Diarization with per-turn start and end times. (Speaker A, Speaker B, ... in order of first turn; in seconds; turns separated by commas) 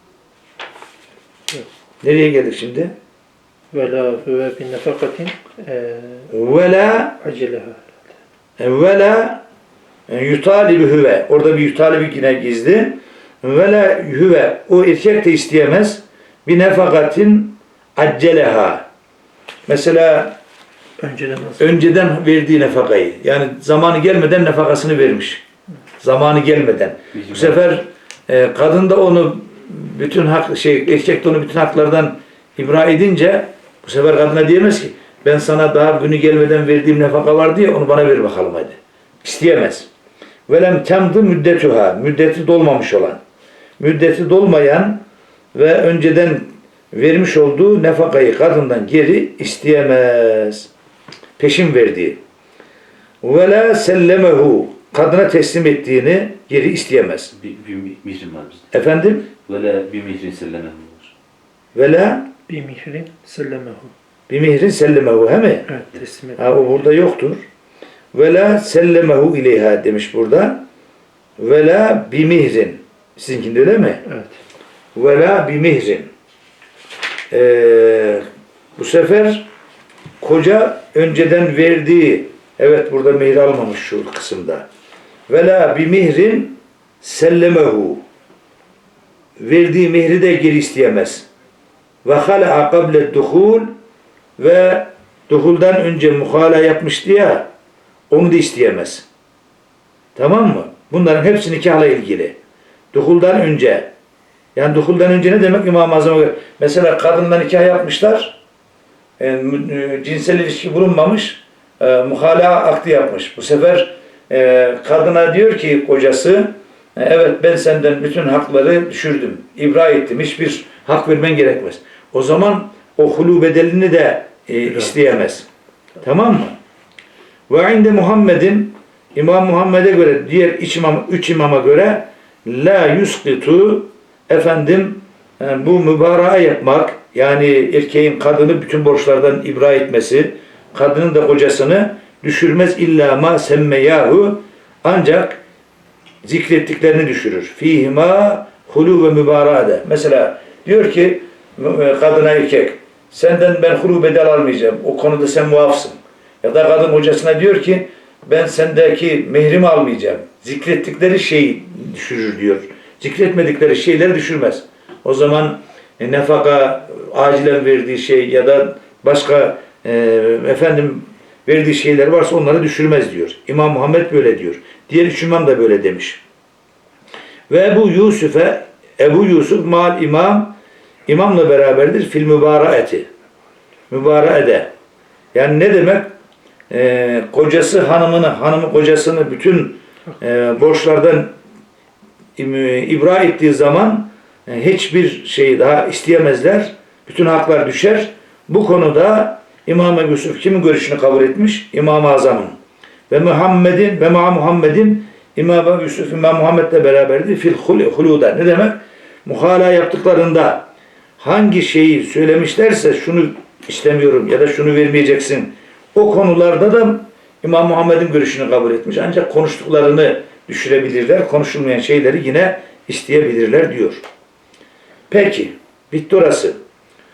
Speaker A: 2.0-2.9, Speaker B: 3.7-6.3, Speaker A: 6.3-7.2, Speaker B: 7.2-8.0, Speaker A: 8.6-9.4, Speaker A: 10.1-18.9, Speaker A: 19.7-20.4, Speaker B: 21.0-21.6, Speaker A: 21.6-25.4, Speaker A: 26.0-39.9, Speaker C: 27.1-27.6, Speaker A: 40.5-43.2, Speaker A: 43.8-45.0, Speaker A: 45.5-50.7, Speaker A: 51.4-52.2, Speaker A: 53.2-57.3, Speaker C: 57.3-58.7, Speaker A: 58.7-59.3, Speaker C: 59.5-61.1, Speaker A: 61.8-62.3, Speaker B: 62.5-63.9, Speaker A: 64.3-65.7, Speaker B: 65.7-66.6, Speaker A: 66.4-67.4, Speaker A: 68.1-70.6, Speaker A: 71.4-74.0, Speaker B: 74.0-74.3, Speaker A: 75.0-76.1, Speaker A: 77.3-78.2, Speaker A: 78.8-79.5, Speaker A: 80.2-84.7, Speaker A: 85.3-88.0, Speaker A: 89.4-91.3, Speaker A: 92.0-93.7, Speaker A: 94.4-97.5, Speaker A: 98.1-99.1, Speaker A: 100.2-102.4, Speaker A: 102.9-103.9, Speaker A: 104.6-108.4, Speaker A: 109.2-125.5, Speaker A: 126.0-126.6, Speaker A: 127.5-145.4, Speaker A: 146.2-176.2, Speaker A: 177.5-180.6, Speaker A: 181.1-183.1, Speaker A: 183.9-184.7, Speaker A: 185.3-186.1, Speaker A: 186.7-191.3, Speaker A: 192.4-202.6, Speaker A: 203.1-210.7, Speaker A: 211.2-224.0, Speaker A: 225.1-226.6